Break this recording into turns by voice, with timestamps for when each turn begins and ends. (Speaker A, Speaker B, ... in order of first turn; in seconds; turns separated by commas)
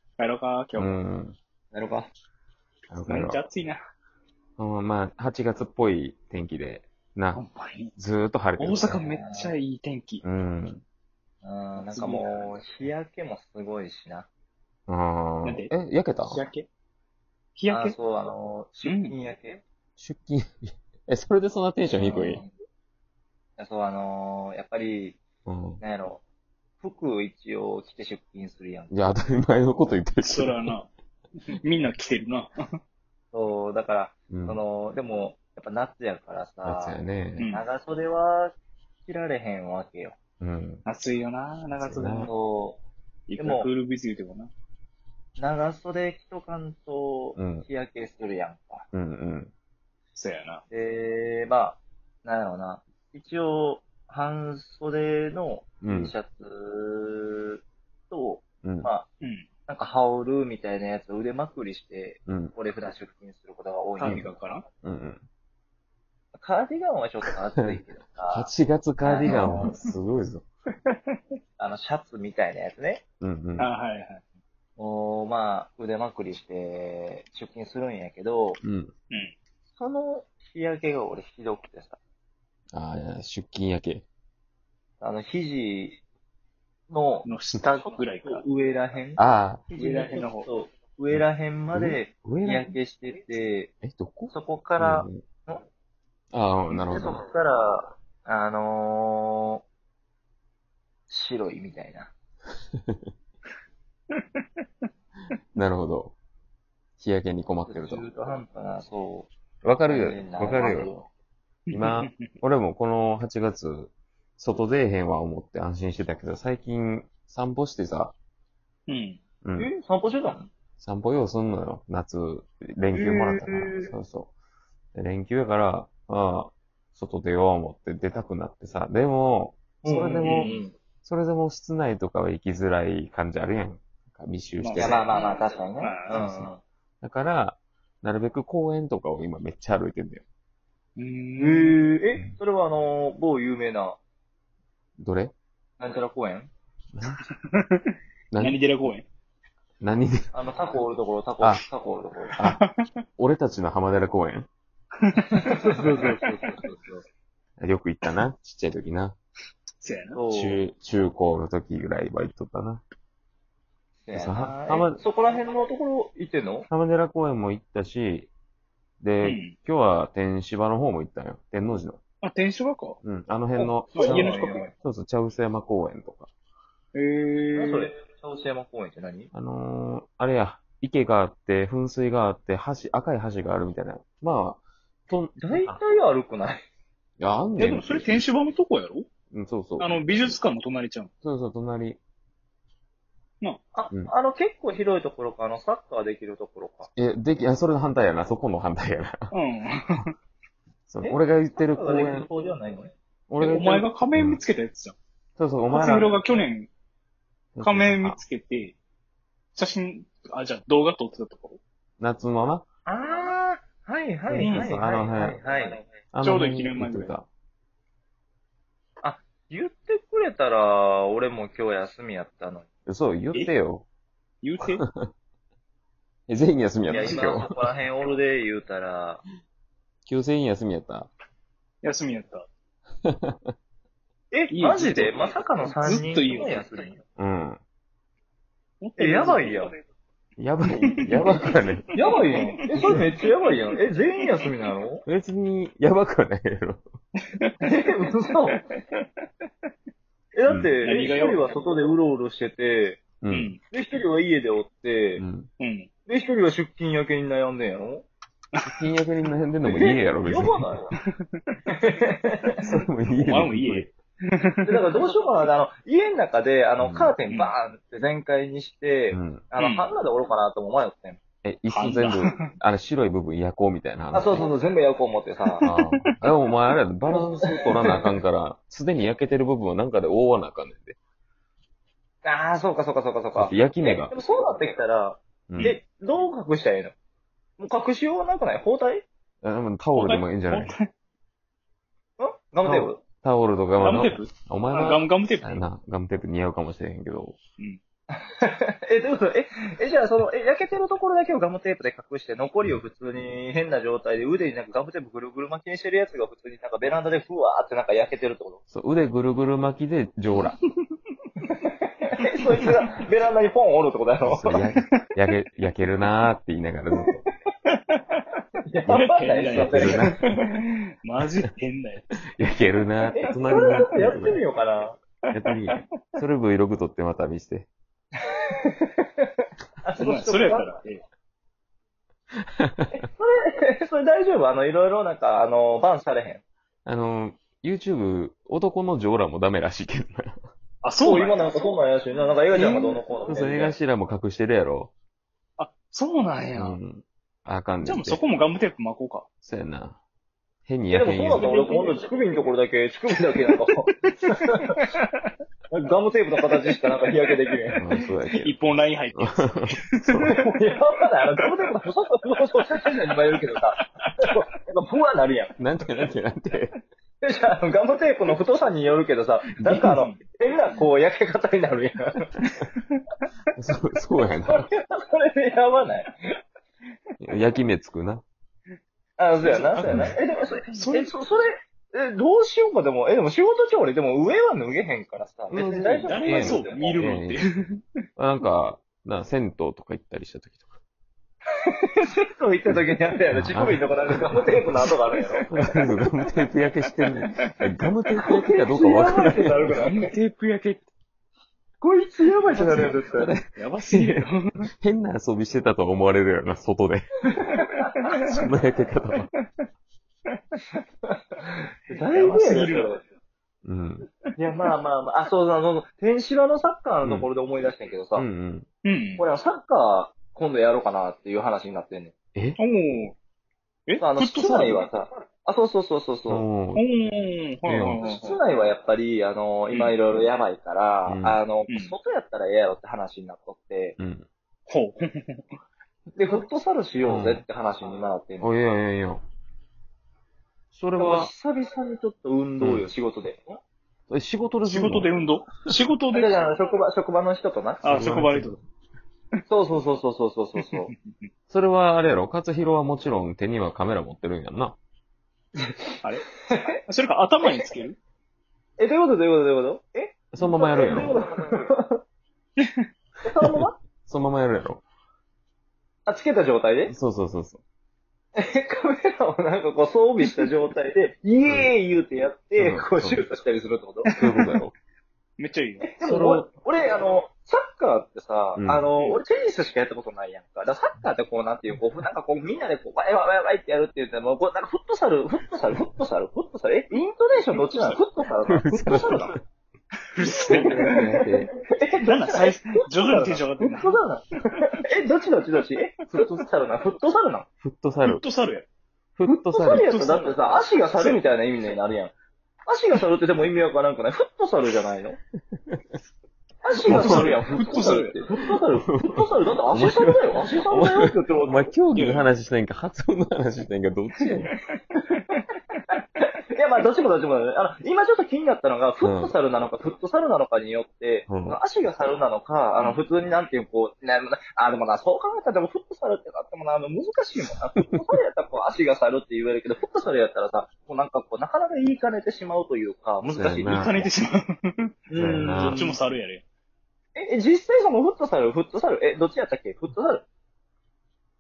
Speaker A: 0.2-1.0, Speaker B: 0.8-1.4, Speaker C: 1.7-2.1, Speaker B: 2.9-3.4, Speaker A: 3.0-3.8, Speaker B: 4.6-7.4, Speaker A: 7.4-7.9, Speaker B: 8.0-9.1, Speaker A: 8.6-10.2, Speaker C: 9.0-9.6, Speaker B: 10.2-10.8, Speaker C: 11.4-14.3, Speaker A: 11.8-12.3, Speaker B: 14.9-16.4, Speaker A: 15.4-15.7, Speaker A: 16.2-16.7, Speaker A: 17.6-18.0, Speaker C: 17.7-19.6, Speaker A: 18.8-19.1, Speaker B: 20.0-22.4, Speaker C: 21.9-22.5, Speaker C: 23.6-25.2, Speaker B: 25.4-25.8, Speaker C: 25.8-26.2, Speaker C: 26.8-28.9, Speaker B: 28.9-30.7, Speaker A: 30.2-30.9, Speaker A: 31.4-32.5, Speaker C: 33.3-38.5, Speaker B: 34.3-34.6, Speaker B: 36.6-37.5, Speaker A: 37.4-37.7, Speaker C: 39.0-40.2, Speaker B: 40.4-40.8, Speaker A: 40.9-42.3, Speaker B: 41.8-42.3, Speaker C: 42.3-42.8, Speaker A: 43.3-44.5, Speaker C: 43.4-43.7, Speaker C: 45.4-48.9, Speaker B: 47.4-47.6, Speaker B: 48.9-49.5, Speaker A: 50.1-50.6, Speaker C: 50.7-59.1, Speaker B: 55.8-56.1, Speaker B: 58.6-58.9, Speaker A: 59.2-59.5, Speaker C: 59.7-64.3, Speaker B: 62.3-62.5, Speaker A: 64.0-64.7, Speaker B: 64.0-64.3, Speaker B: 64.8-65.2, Speaker C: 66.4-68.5, Speaker B: 68.3-70.5, Speaker C: 69.0-69.7, Speaker A: 69.2-69.8, Speaker C: 71.6-73.0, Speaker B: 73.2-73.7, Speaker A: 73.6-74.2, Speaker C: 74.8-78.6, Speaker B: 78.6-78.9, Speaker C: 79.8-82.0, Speaker B: 82.7-84.0, Speaker C: 85.0-86.0, Speaker C: 86.9-93.7, Speaker A: 87.2-88.5, Speaker B: 89.2-89.6, Speaker A: 89.8-90.5, Speaker B: 91.1-92.8, Speaker B: 93.8-95.2, Speaker C: 94.3-95.6, Speaker B: 96.3-97.2, Speaker C: 96.9-99.6, Speaker C: 101.1-102.1, Speaker A: 104.1-104.9, Speaker B: 105.5-106.2, Speaker B: 107.0-108.0, Speaker C: 107.7-109.3, Speaker B: 109.6-111.0, Speaker C: 109.9-111.1, Speaker A: 111.7-112.3, Speaker B: 111.7-118.1, Speaker A: 118.9-119.2, Speaker B: 119.4-119.7, Speaker C: 119.6-120.5, Speaker B: 120.8-124.3, Speaker C: 122.9-123.9, Speaker B: 125.0-135.1, Speaker C: 129.8-130.7, Speaker A: 130.2-130.6, Speaker A: 134.6-136.2, Speaker C: 134.8-136.6, Speaker B: 137.0-140.2, Speaker A: 141.0-141.8, Speaker C: 141.4-144.0, Speaker B: 145.0-145.3, Speaker C: 145.8-146.5, Speaker A: 147.5-147.8, Speaker B: 148.3-148.6, Speaker A: 148.4-149.1, Speaker B: 149.8-150.3, Speaker C: 150.3-152.3, Speaker B: 151.4-151.7, Speaker A: 152.3-152.8, Speaker B: 152.4-152.6, Speaker B: 153.2-154.5, Speaker A: 155.0-155.4, Speaker C: 155.3-157.0, Speaker A: 156.0-156.4, Speaker B: 157.6-159.2, Speaker A: 159.8-160.2, Speaker C: 160.1-160.6, Speaker B: 160.3-162.8, Speaker C: 164.1-166.7, Speaker B: 164.1-165.0, Speaker B: 166.7-168.3, Speaker B: 169.0-172.0, Speaker A: 169.2-169.6, Speaker A: 172.2-173.0, Speaker B: 173.0-176.3, Speaker A: 173.6-174.7, Speaker C: 173.9-174.7, Speaker A: 176.9-177.9, Speaker C: 177.6-179.3, Speaker B: 179.3-185.8, Speaker C: 185.4-186.6, Speaker B: 187.2-188.2, Speaker A: 187.6-189.1, Speaker B: 189.3-190.4, Speaker A: 189.8-191.1, Speaker B: 191.2-192.0, Speaker C: 193.7-196.9, Speaker B: 196.9-199.3, Speaker A: 199.3-200.1, Speaker B: 200.9-202.3, Speaker C: 201.0-202.9, Speaker B: 203.3-204.4, Speaker A: 203.4-205.0, Speaker B: 205.4-206.2, Speaker A: 205.7-206.7, Speaker B: 207.6-208.2, Speaker A: 207.6-208.8, Speaker A: 209.6-211.6, Speaker B: 212.0-212.6, Speaker C: 212.9-215.8, Speaker B: 214.3-217.3, Speaker A: 214.4-214.8, Speaker A: 216.2-217.1, Speaker C: 219.0-222.7, Speaker B: 222.9-223.8, Speaker A: 224.4-224.8, Speaker B: 226.3-227.5, Speaker C: 226.9-229.2, Speaker A: 227.0-227.3, Speaker B: 230.1-231.1, Speaker A: 231.8-232.5, Speaker B: 233.1-233.5, Speaker C: 234.3-237.0, Speaker A: 234.5-236.7, Speaker B: 237.2-237.6, Speaker A: 238.8-239.7, Speaker C: 239.0-239.7, Speaker B: 240.4-241.9, Speaker A: 240.7-241.4, Speaker C: 241.9-245.0, Speaker A: 242.0-243.1, Speaker B: 245.1-246.8, Speaker C: 247.6-248.7, Speaker A: 248.6-249.1, Speaker C: 250.3-253.1, Speaker B: 250.5-251.1, Speaker A: 250.8-251.5, Speaker B: 253.2-253.5, Speaker A: 253.3-253.6, Speaker C: 253.7-255.2, Speaker B: 255.2-255.5, Speaker A: 255.6-255.9, Speaker C: 256.1-258.1, Speaker B: 258.6-260.7, Speaker C: 259.6-260.9, Speaker C: 261.7-262.6, Speaker B: 262.6-263.9, Speaker A: 263.1-264.8, Speaker C: 264.6-271.2, Speaker B: 266.8-267.1, Speaker A: 267.3-267.5, Speaker B: 269.1-269.4, Speaker A: 269.6-269.9, Speaker B: 271.4-274.5, Speaker A: 271.7-272.5, Speaker C: 274.1-275.7, Speaker A: 275.6-276.1, Speaker B: 275.6-281.0, Speaker C: 277.1-277.7, Speaker C: 282.2-286.9, Speaker B: 283.4-284.1, Speaker B: 285.5-285.8, Speaker C: 287.6-289.1, Speaker B: 289.4-290.8, Speaker A: 289.9-290.9, Speaker C: 292.2-293.0, Speaker B: 292.6-297.4, Speaker A: 293.8-295.6, Speaker C: 298.1-308.6, Speaker B: 308.7-310.6, Speaker C: 311.5-314.5, Speaker B: 314.2-317.2, Speaker A: 317.7-318.2, Speaker C: 318.7-320.3, Speaker B: 318.9-320.3, Speaker A: 318.9-322.1, Speaker B: 322.3-324.4, Speaker C: 323.1-325.0, Speaker B: 325.3-327.7, Speaker C: 328.2-329.3, Speaker C: 329.8-330.7, Speaker A: 330.0-331.0, Speaker B: 332.6-333.0, Speaker C: 333.0-336.4, Speaker B: 336.9-340.4, Speaker A: 340.8-341.4, Speaker C: 341.0-343.8, Speaker B: 342.5-344.9, Speaker A: 342.6-343.0, Speaker A: 345.6-346.8, Speaker B: 346.6-348.2, Speaker A: 347.8-349.3, Speaker B: 349.4-350.0, Speaker B: 350.7-351.6, Speaker C: 350.9-354.8, Speaker A: 351.4-352.1, Speaker A: 353.5-355.2, Speaker C: 355.7-358.0, Speaker B: 357.8-358.6, Speaker A: 358.3-360.3, Speaker B: 359.2-360.4, Speaker C: 360.3-365.6, Speaker B: 365.6-366.7, Speaker C: 367.2-372.3, Speaker B: 369.6-370.0, Speaker A: 369.8-370.2, Speaker B: 373.6-374.7, Speaker C: 374.5-376.1, Speaker B: 377.2-378.2, Speaker C: 379.2-386.9, Speaker A: 379.4-380.1, Speaker B: 379.9-380.1, Speaker A: 380.7-381.2, Speaker B: 385.5-387.4, Speaker A: 386.0-387.8, Speaker B: 388.2-390.7, Speaker C: 391.7-395.5, Speaker B: 392.7-394.8, Speaker A: 395.2-395.7, Speaker B: 395.5-399.7, Speaker C: 398.2-400.1, Speaker A: 399.7-400.9, Speaker C: 401.8-403.4, Speaker A: 402.4-403.0, Speaker B: 402.6-404.3, Speaker A: 403.6-404.7, Speaker B: 404.8-407.1, Speaker C: 407.4-408.1, Speaker A: 408.0-408.5, Speaker B: 408.3-409.3, Speaker A: 409.3-409.6, Speaker C: 411.1-413.0, Speaker A: 411.9-412.9, Speaker B: 413.6-414.1, Speaker C: 414.4-418.3, Speaker B: 418.2-418.7, Speaker A: 418.9-419.3, Speaker C: 419.2-422.1, Speaker A: 422.6-423.1, Speaker A: 423.9-424.9, Speaker C: 424.0-426.5, Speaker B: 426.3-426.8, Speaker A: 426.8-428.4, Speaker B: 427.7-428.0, Speaker C: 428.0-434.0, Speaker B: 431.1-431.4, Speaker A: 431.7-431.9, Speaker B: 434.0-434.3, Speaker A: 434.7-435.5, Speaker C: 436.2-438.5, Speaker B: 437.1-437.4, Speaker B: 438.4-439.2, Speaker B: 440.7-441.3, Speaker C: 441.0-443.6, Speaker B: 442.6-442.9, Speaker B: 444.1-445.1, Speaker A: 444.6-446.4, Speaker C: 446.1-448.0, Speaker A: 447.8-448.6, Speaker B: 447.9-448.6, Speaker C: 449.5-450.9, Speaker A: 450.6-451.0, Speaker B: 451.5-454.8, Speaker C: 455.6-456.0, Speaker A: 456.0-458.0, Speaker C: 457.4-457.7, Speaker C: 458.8-462.0, Speaker B: 460.3-461.2, Speaker C: 463.2-463.8, Speaker B: 464.0-464.8, Speaker C: 466.1-466.9, Speaker B: 466.9-467.6, Speaker C: 468.4-474.1, Speaker B: 471.4-471.7, Speaker B: 472.6-473.2, Speaker B: 474.2-474.8, Speaker A: 475.4-475.9, Speaker C: 475.8-489.4, Speaker B: 476.0-476.5, Speaker B: 478.6-478.9, Speaker A: 478.9-479.2, Speaker A: 487.5-488.0, Speaker B: 488.5-489.4, Speaker A: 490.1-491.0, Speaker C: 490.3-497.5, Speaker B: 490.3-491.5, Speaker A: 492.0-494.0, Speaker B: 497.6-498.2, Speaker A: 498.1-498.7, Speaker B: 499.2-499.9, Speaker C: 499.3-502.1, Speaker A: 499.7-501.3, Speaker C: 502.7-505.2, Speaker C: 506.6-511.7, Speaker B: 506.9-507.7, Speaker A: 506.9-508.1, Speaker B: 508.8-514.5, Speaker A: 511.9-512.3, Speaker A: 514.2-515.3, Speaker C: 516.2-534.1, Speaker B: 519.0-519.4, Speaker B: 521.3-521.6, Speaker A: 522.8-523.0, Speaker B: 533.2-534.0, Speaker A: 533.7-534.9, Speaker C: 535.1-535.9, Speaker B: 535.2-536.0, Speaker A: 535.4-536.4, Speaker C: 537.1-540.2